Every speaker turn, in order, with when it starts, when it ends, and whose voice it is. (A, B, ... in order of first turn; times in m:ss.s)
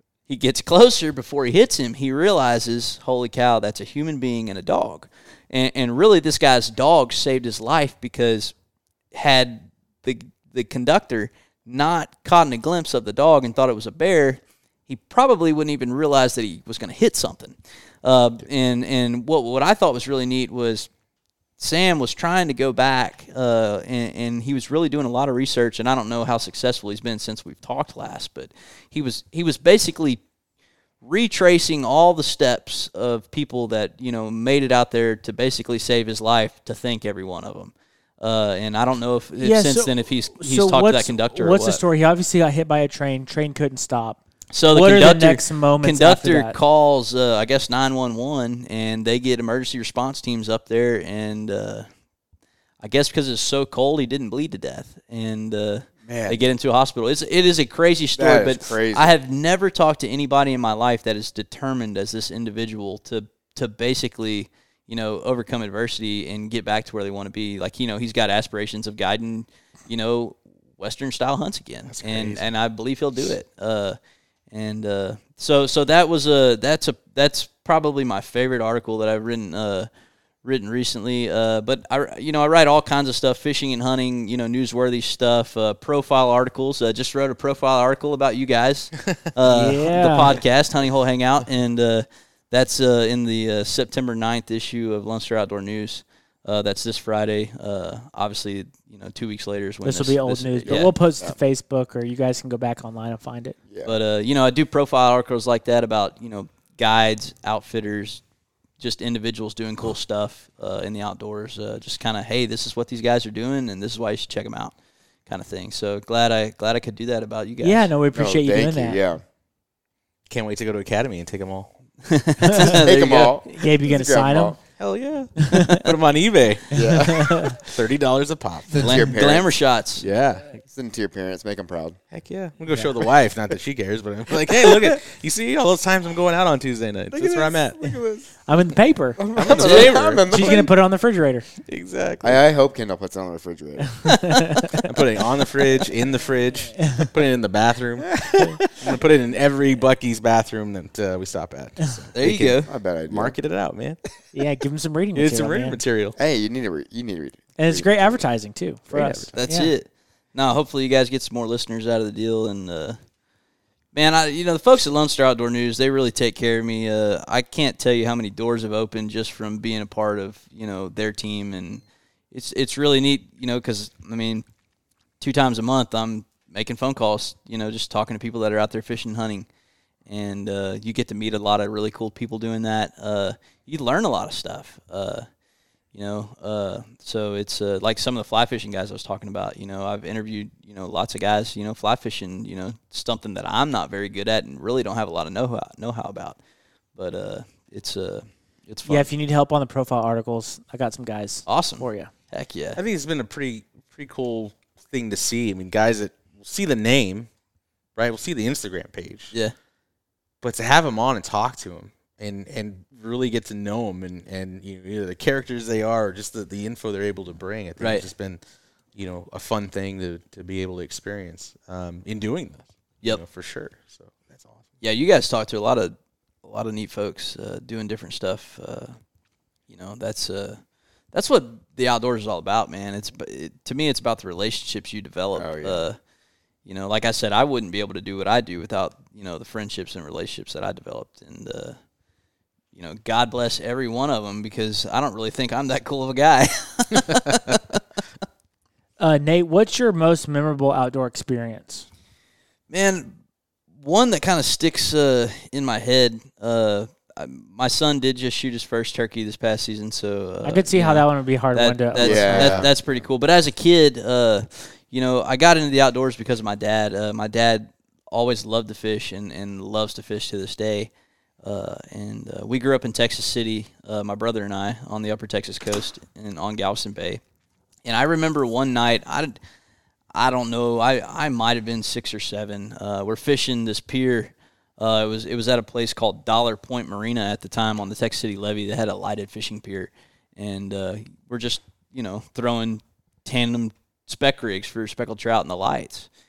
0:00.3-0:08.5 A
0:09.1-0:20.9 A
0:21.6-0:30.2 A
0:31.0-0:41.8 A
0:39.4-0:46.6 B
0:44.5-0:51.9 A
0:52.8-1:14.0 A
0:56.1-0:56.4 C
0:58.2-0:59.1 C
1:11.9-1:12.4 D
1:14.5-1:19.9 A
1:20.4-1:40.9 A
1:29.5-1:30.4 B
1:39.8-1:43.6 B
1:40.7-1:41.4 C
1:43.8-1:48.2 A
1:48.8-1:54.7 A
1:55.3-1:57.9 A
1:57.6-1:59.0 B
1:58.1-1:59.2 C
2:00.3-2:01.7 D
2:02.1-2:03.4 A
2:02.6-2:04.6 C
2:03.4-2:04.6 B
2:04.8-2:09.1 D
2:05.4-2:05.8 B
2:06.7-2:07.5 C
2:07.0-2:07.6 B
2:08.7-2:09.5 C
2:08.8-2:10.1 A
2:10.0-2:10.5 D
2:10.6-2:12.0 C
2:12.1-2:17.9 D
2:14.6-2:14.9 C
2:17.1-2:18.3 C
2:18.5-2:19.2 B
2:19.2-2:20.7 C
2:19.4-2:20.6 D
2:20.2-2:21.5 B
2:21.6-2:22.4 D
2:22.2-2:24.2 C
2:24.1-2:24.8 B
2:24.7-2:34.0 D
2:32.1-2:32.7 A
2:32.6-2:33.4 C
2:34.3-2:35.8 B
2:35.2-2:36.2 D
2:36.2-2:38.2 C
2:37.6-2:39.7 B
2:38.9-2:39.3 C
2:39.3-2:43.0 A
2:43.9-2:54.4 A
2:55.2-2:59.5 A
3:00.1-3:05.3 A
3:05.9-3:16.4 A
3:17.0-3:19.1 A
3:18.9-3:22.1 B
3:21.5-3:22.8 A
3:22.8-3:27.3 D
3:28.0-3:29.3 D
3:30.4-3:38.4 D
3:37.8-3:38.0 A
3:39.0-3:44.5 D
3:44.8-3:45.9 A
3:46.4-3:49.0 A
3:49.7-3:50.6 A
3:51.1-3:56.0 A
3:55.4-3:55.9 C
3:56.7-4:01.8 A
4:02.7-4:07.8 A
4:09.0-4:11.9 B
4:12.7-4:13.1 A
4:13.8-4:30.9 A
4:20.4-4:22.7 B
4:22.0-4:22.9 C
4:31.4-4:37.2 A
4:37.8-4:39.4 A
4:40.1-4:56.1 A